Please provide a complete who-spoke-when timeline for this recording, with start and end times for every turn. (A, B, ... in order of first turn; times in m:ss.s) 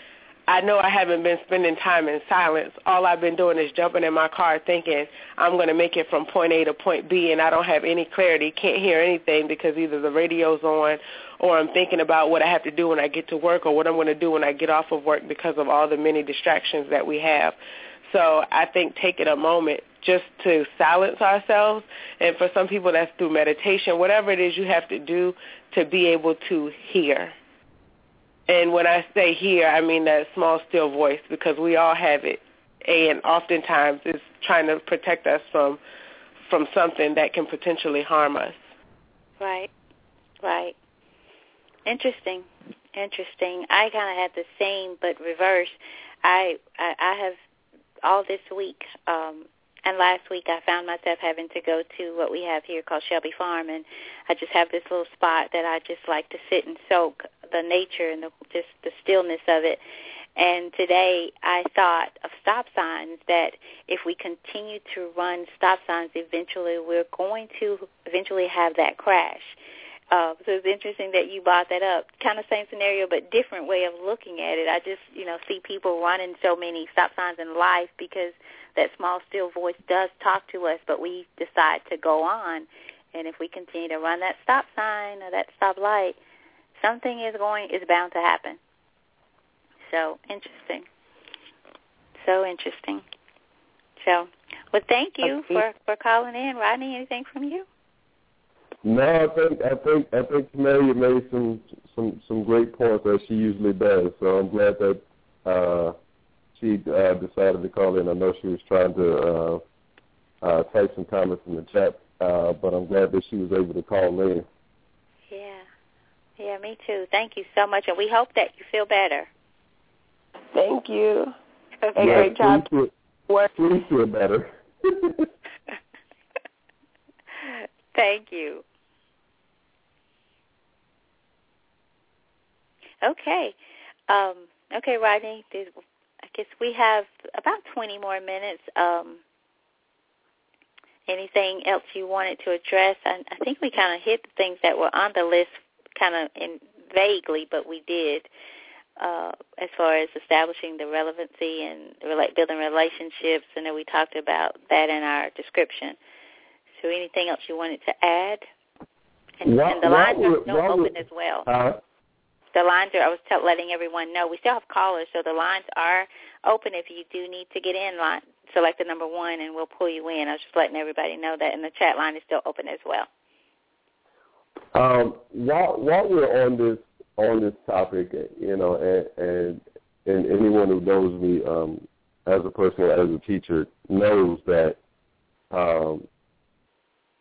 0:00.5-0:27.4 A
0:28.5-0:35.8 A
0:36.5-0:38.6 A
0:39.4-0:39.7 B
0:40.4-0:40.8 B
0:41.9-0:47.4 B
0:48.0-0:59.8 B
1:00.4-1:09.6 B
1:10.1-1:26.2 B
1:26.8-1:28.6 B
1:29.9-1:30.9 B
1:32.2-1:33.0 B
1:34.0-1:37.7 B
1:38.8-1:46.0 C
1:46.6-1:49.6 C
1:50.4-1:54.5 C
1:55.3-1:55.6 B
1:56.4-1:59.3 B
2:00.5-2:01.4 A
2:01.8-2:02.4 B
2:02.0-2:02.7 A
2:02.0-2:02.9 C
2:03.5-2:05.3 C
2:07.4-2:08.6 B
2:13.0-2:13.6 B
2:14.1-2:15.7 B
2:16.3-2:19.2 B
2:21.1-2:28.3 B
2:29.0-2:36.0 B
2:36.8-2:38.4 B
2:39.4-2:41.5 B
2:39.4-2:41.8 C
2:42.5-2:53.1 B
2:54.7-3:04.8 C
3:05.5-3:06.0 C